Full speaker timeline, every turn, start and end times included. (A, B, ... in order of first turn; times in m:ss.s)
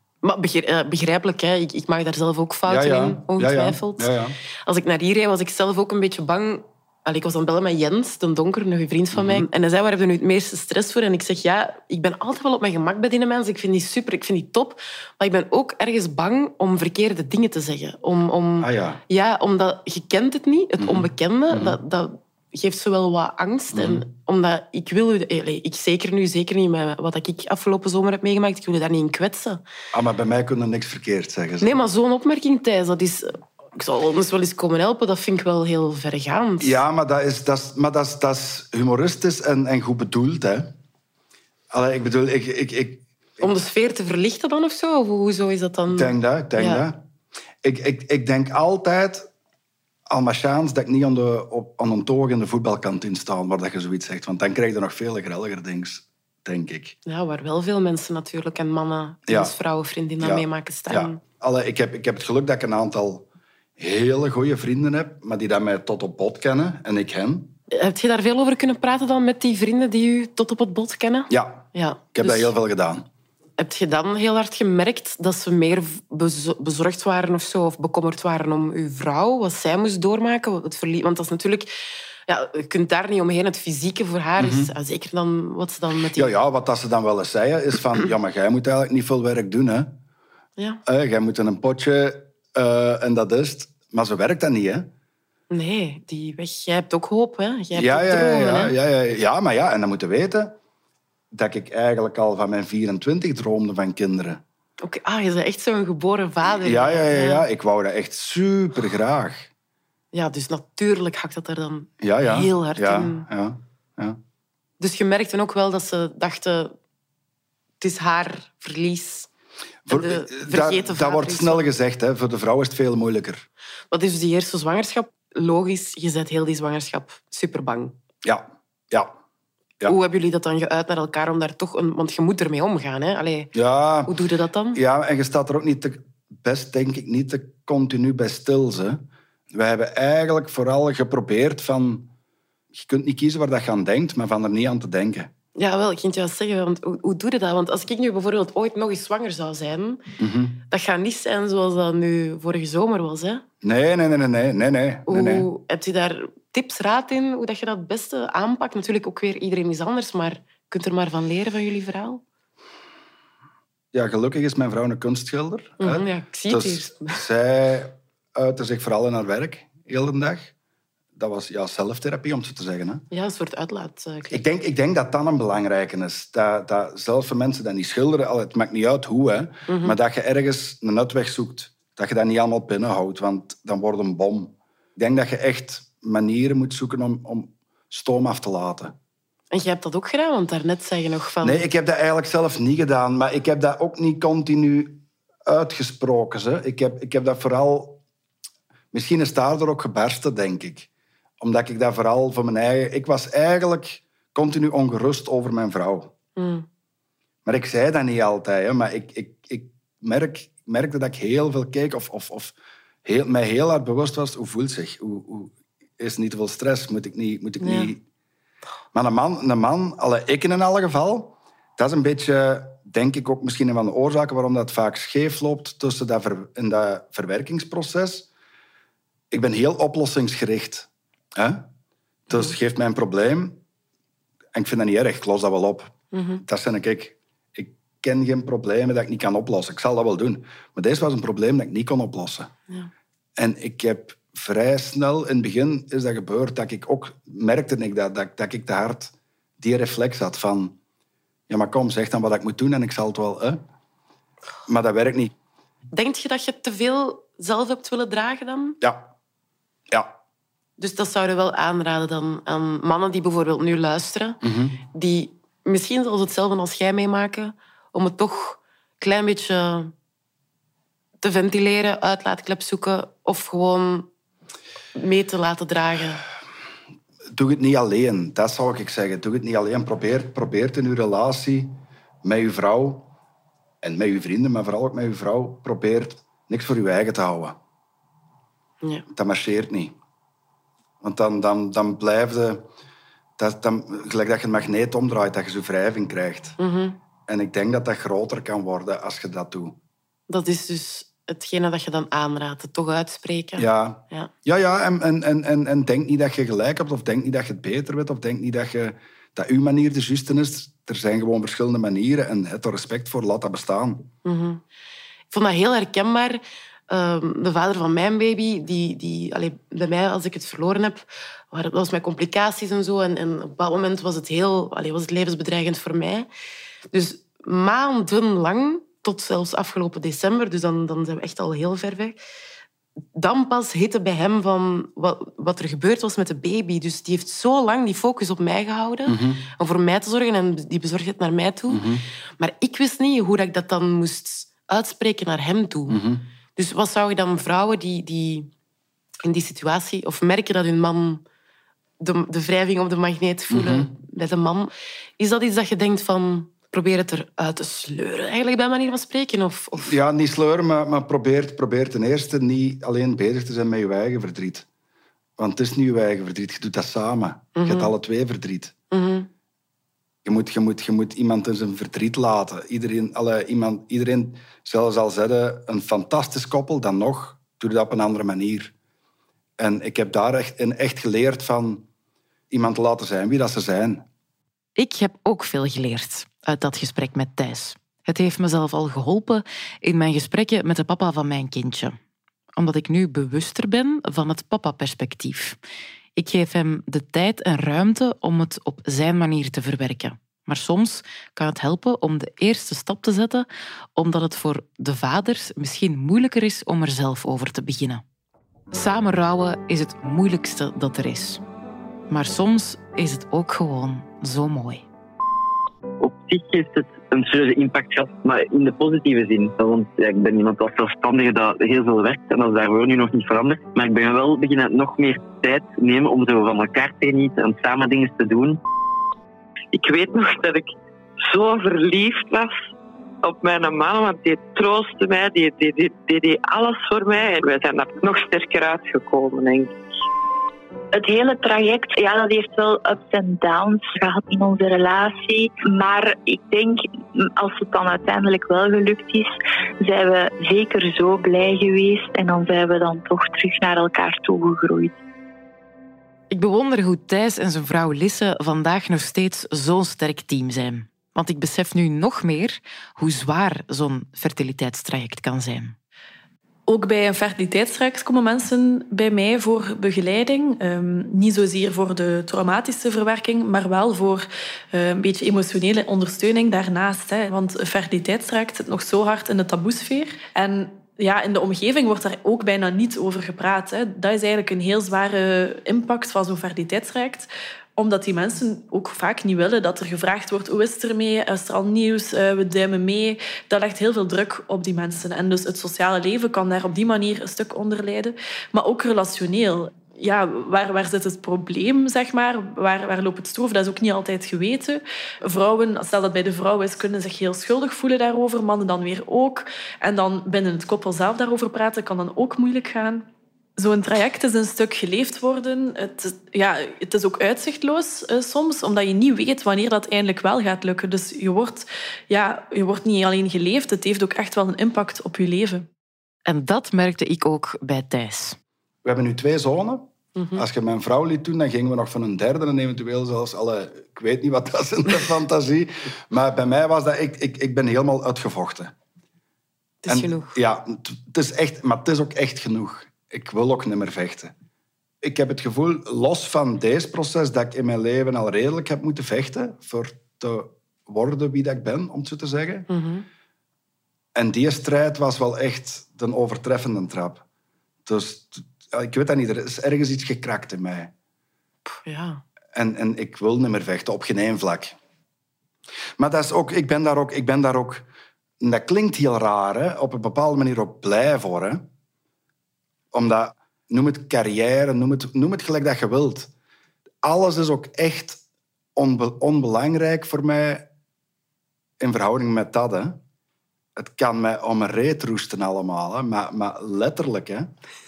0:00.2-0:04.1 A
0:02.6-0:04.4 B
0:04.6-0:29.6 A
0:09.1-0:09.4 B
0:18.6-0:19.0 B
0:20.8-0:21.8 B
0:23.7-0:24.0 B
0:29.9-0:31.7 B
0:31.6-0:36.8 A
0:36.6-0:40.8 B
0:41.7-0:43.5 B
0:43.4-0:46.8 A
0:45.9-0:47.0 B
0:47.6-0:49.3 B
0:50.1-0:57.0 B
0:57.0-1:01.2 A
0:59.2-0:59.5 B
1:00.2-1:03.3 B
1:03.8-1:07.5 B
1:07.7-1:12.5 A
1:11.3-1:13.0 B
1:13.6-1:21.7 A
1:22.3-1:26.3 A
1:24.4-1:24.7 B
1:26.1-1:30.0 B
1:30.8-1:34.9 B
1:35.5-1:38.7 A
1:37.7-1:40.6 B
1:41.3-1:44.4 B
1:44.8-1:47.4 A
1:46.6-1:49.5 B
1:50.1-1:53.3 A
1:52.0-1:54.2 B
1:54.8-1:56.7 A
1:57.8-1:59.3 A
1:59.8-2:03.4 B
1:59.9-2:01.7 A
2:03.9-2:07.9 A
2:08.2-2:09.1 B
2:09.8-2:13.5 A
2:13.5-2:14.1 B
2:14.0-2:14.8 A
2:14.7-2:22.1 B
2:22.7-2:25.3 B
2:25.6-2:30.0 A
2:30.2-2:30.6 B
2:30.7-2:33.4 A
2:33.6-2:35.5 B
2:35.1-2:42.2 A
2:43.9-2:50.5 B
2:45.8-2:47.2 A
2:51.2-2:53.0 B
2:53.1-2:54.4 A
2:54.3-3:08.9 B
2:59.7-3:00.0 A
3:09.5-3:11.6 A
3:11.4-3:18.0 B
3:18.9-3:20.9 B
3:21.4-3:26.1 B
3:26.4-3:26.6 A
3:27.4-3:38.0 B
3:37.6-3:37.9 A
3:38.9-3:48.3 B
3:49.3-3:51.7 B
3:52.3-3:53.6 B
3:54.5-4:02.5 B
3:56.1-3:56.4 A
4:03.4-4:10.8 B
4:11.5-4:13.6 B
4:14.7-4:15.3 B
4:15.9-4:18.8 A
4:18.8-4:19.1 B
4:19.9-4:20.1 B
4:20.8-4:24.4 A
4:24.4-4:24.8 B
4:24.9-4:29.9 A
4:31.2-4:34.1 A
4:34.9-4:36.2 A
4:37.3-4:43.1 B
4:43.8-4:47.6 B
4:49.1-4:49.9 B
4:51.0-4:52.6 B
4:53.4-4:56.6 B
4:56.6-4:57.0 A
4:57.3-4:59.8 B
5:00.3-5:04.3 A
5:03.6-5:14.1 B
5:14.2-5:14.6 A
5:15.3-5:26.3 A
5:26.9-5:32.2 A
5:33.1-5:41.8 A
5:39.0-5:39.4 B
5:41.7-5:42.0 B
5:42.4-5:46.0 A
5:45.9-5:46.2 B
5:46.6-5:48.5 A
5:49.2-5:51.2 A
5:52.0-6:00.0 A
5:53.5-5:53.9 B
5:59.8-6:04.6 B
6:05.4-6:08.7 B
6:07.5-6:07.9 A
6:08.9-6:09.3 A
6:10.2-6:18.7 B
6:19.6-6:21.8 B
6:22.5-6:24.0 B
6:24.8-6:31.9 A
6:32.6-6:35.6 A
6:36.2-6:43.4 A
6:44.0-6:48.0 A
6:48.7-6:51.4 A
6:52.1-6:54.8 A
6:56.0-7:08.6 C
7:09.7-7:10.7 D
7:11.2-7:12.6 D
7:13.2-7:19.7 D
7:20.9-7:35.0 E
7:36.3-7:45.7 A
7:46.7-8:33.0 F
8:33.6-8:45.7 F
8:46.3-8:48.4 A
8:48.8-8:58.7 B
8:50.2-8:50.4 A
8:59.8-9:00.4 A
8:59.9-9:04.3 B
9:05.0-9:12.7 B
9:12.7-9:13.0 A
9:14.1-9:17.2 B
9:17.8-9:20.9 B
9:21.6-9:22.2 A
9:22.5-9:24.8 B
9:26.0-9:27.9 B
9:28.4-9:31.7 B
9:32.9-9:36.3 B
9:37.0-9:38.2 B
9:38.8-9:40.7 B
9:41.8-9:43.0 B
9:43.8-9:47.5 B